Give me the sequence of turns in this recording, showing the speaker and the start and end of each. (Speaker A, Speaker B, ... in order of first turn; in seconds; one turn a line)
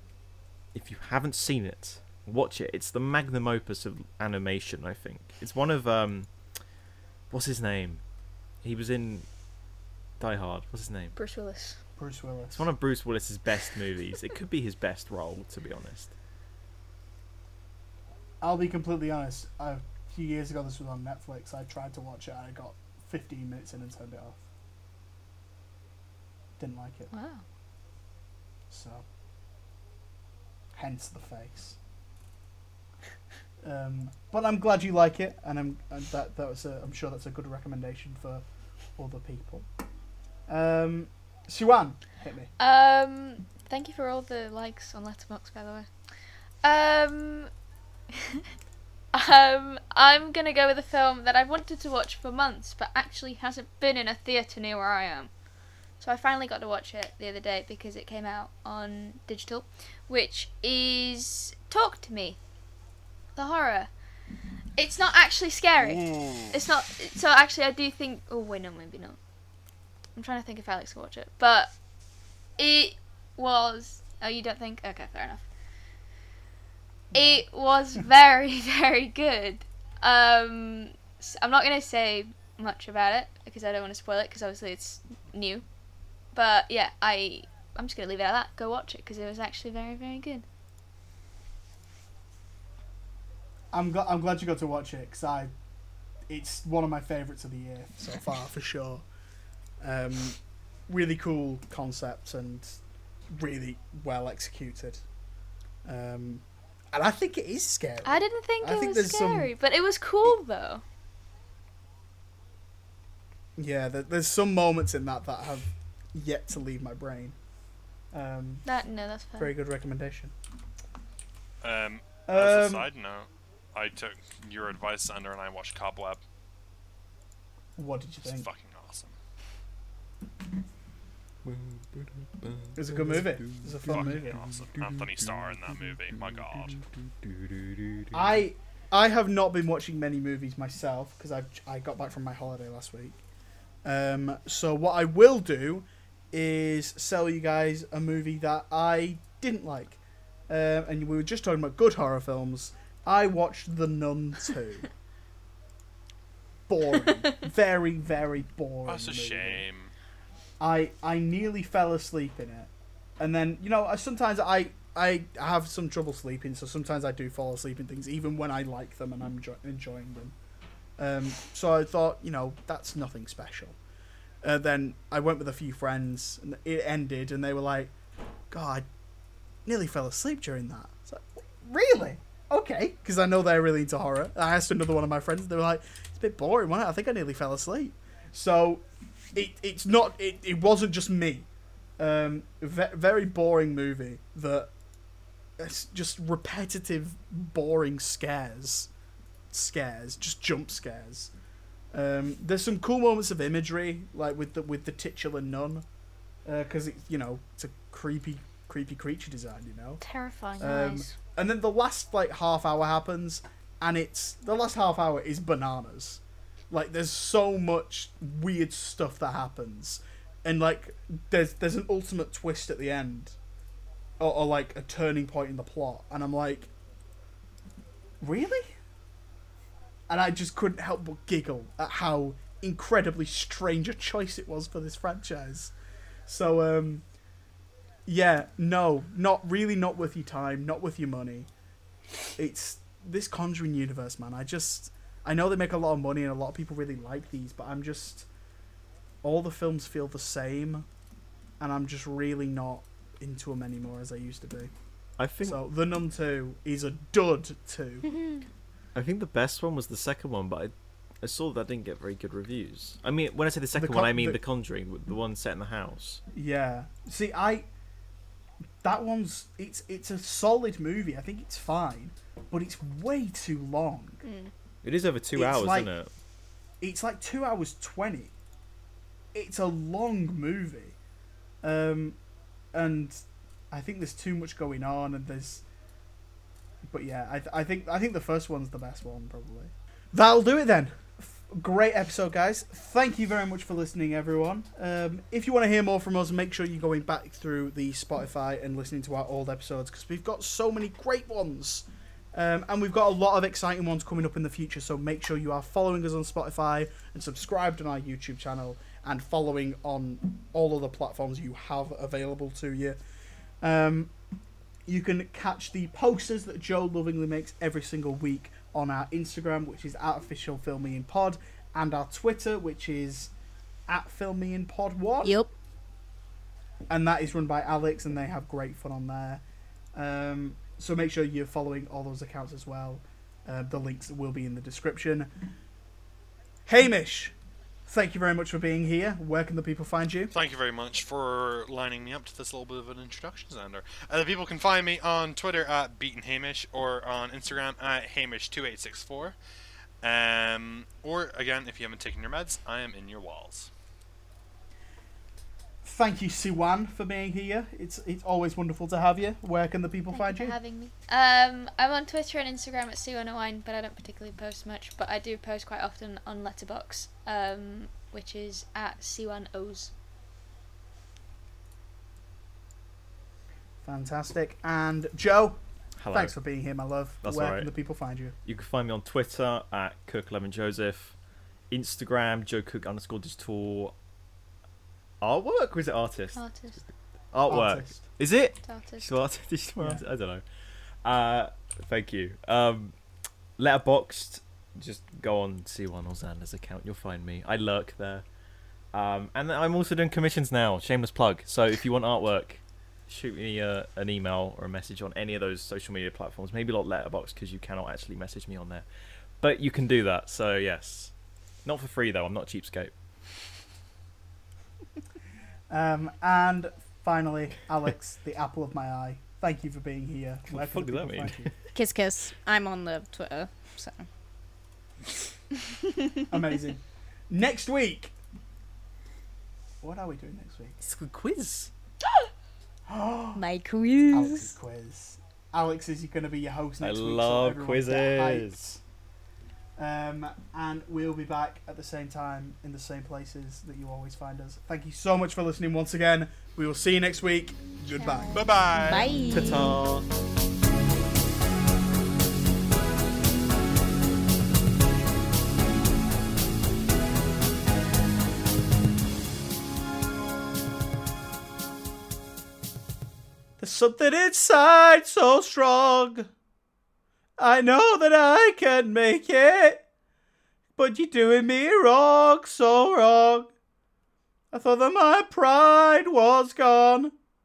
Speaker A: 0.7-6.3
Speaker A: 7.3-8.0
Speaker A: 8.6-9.3
Speaker A: 10.2-11.2
Speaker B: 11.2-11.8
Speaker C: 12.0-12.7
Speaker A: 12.5-16.1
Speaker C: 18.4-24.4
Speaker C: 26.6-27.1
Speaker B: 27.1-27.4
Speaker C: 28.7-29.0
Speaker C: 30.7-31.8
Speaker C: 33.6-38.4
Speaker C: 38.9-39.6
Speaker C: 40.5-42.5
Speaker B: 42.6-47.5
Speaker B: 48.1-48.4
Speaker B: 49.1-55.3
Speaker B: 56.0-62.4
Speaker B: 63.3-63.9
Speaker B: 64.8-69.2
Speaker D: 65.8-66.5
Speaker B: 70.1-71.8
Speaker B: 72.6-75.5
Speaker C: 77.1-77.4
Speaker B: 77.1-85.6
Speaker B: 86.3-90.5
Speaker C: 93.7-95.5
Speaker C: 96.3-99.0
Speaker C: 99.8-102.8
Speaker C: 103.3-105.0
Speaker C: 105.8-109.5
Speaker B: 108.0-110.8
Speaker C: 113.6-117.3
Speaker C: 118.1-118.6
Speaker B: 118.6-119.5
Speaker C: 119.4-120.3
Speaker D: 121.6-126.2
Speaker C: 122.2-122.9
Speaker C: 127.8-128.5
Speaker D: 128.2-129.1
Speaker A: 131.4-138.4
Speaker C: 132.7-134.4
Speaker D: 133.9-136.8
Speaker C: 138.1-143.2
Speaker C: 143.8-154.9
Speaker C: 156.7-159.7
Speaker D: 158.9-159.9
Speaker C: 160.6-170.3
Speaker C: 171.0-173.8
Speaker C: 174.4-177.9
Speaker C: 178.5-178.8
Speaker C: 179.6-188.8
Speaker C: 189.3-191.5
Speaker C: 192.0-194.7
Speaker C: 195.6-198.9
Speaker C: 199.5-201.3
Speaker C: 201.9-205.8
Speaker C: 206.4-210.0
Speaker B: 210.0-211.1
Speaker C: 210.6-223.3
Speaker C: 224.2-226.7
Speaker C: 228.2-228.8
Speaker C: 230.1-235.7
Speaker C: 236.3-237.0
Speaker C: 238.1-241.5
Speaker C: 242.3-248.3
Speaker C: 249.2-250.9
Speaker C: 251.6-254.7
Speaker A: 255.2-255.6
Speaker C: 255.4-258.1
Speaker A: 258.9-266.2
Speaker C: 263.7-264.4
Speaker C: 266.3-267.7
Speaker C: 268.8-274.2
Speaker B: 274.2-274.5
Speaker A: 274.8-276.1
Speaker C: 275.3-275.9
Speaker C: 276.8-278.3
Speaker C: 279.3-280.9
Speaker C: 281.6-282.2
Speaker C: 282.7-285.6
Speaker C: 286.9-313.0
Speaker C: 313.6-314.1
Speaker C: 314.9-323.3
Speaker C: 323.9-325.4
Speaker E: 325.2-325.5
Speaker C: 326.9-329.4
Speaker C: 329.9-335.3
Speaker C: 336.7-337.3
Speaker C: 337.9-340.3
Speaker D: 340.3-349.4
Speaker D: 350.0-353.7
Speaker C: 355.8-360.6
Speaker B: 360.1-369.9
Speaker C: 373.8-378.4
Speaker A: 376.0-376.4
Speaker A: 377.2-377.7
Speaker A: 378.4-381.1
Speaker A: 381.7-383.9
Speaker A: 385.2-386.8
Speaker B: 386.3-386.8
Speaker A: 387.3-390.4
Speaker C: 387.5-388.0
Speaker B: 388.6-389.1
Speaker A: 391.0-392.9
Speaker A: 393.6-398.2
Speaker A: 398.9-408.9
Speaker A: 409.4-411.1
Speaker A: 411.6-412.9
Speaker C: 415.7-421.5
Speaker A: 420.5-421.6
Speaker E: 421.7-424.1
Speaker C: 426.3-428.1
Speaker C: 429.8-430.8
Speaker A: 430.8-431.7
Speaker C: 432.9-433.4
Speaker E: 433.3-434.5
Speaker C: 434.1-438.8
Speaker A: 436.8-438.6
Speaker C: 439.8-448.4
Speaker B: 447.9-448.4
Speaker D: 448.3-449.1
Speaker E: 448.7-449.8
Speaker A: 449.3-450.1
Speaker C: 463.6-466.3
Speaker C: 467.4-469.8
Speaker C: 470.8-473.5
Speaker C: 474.5-477.1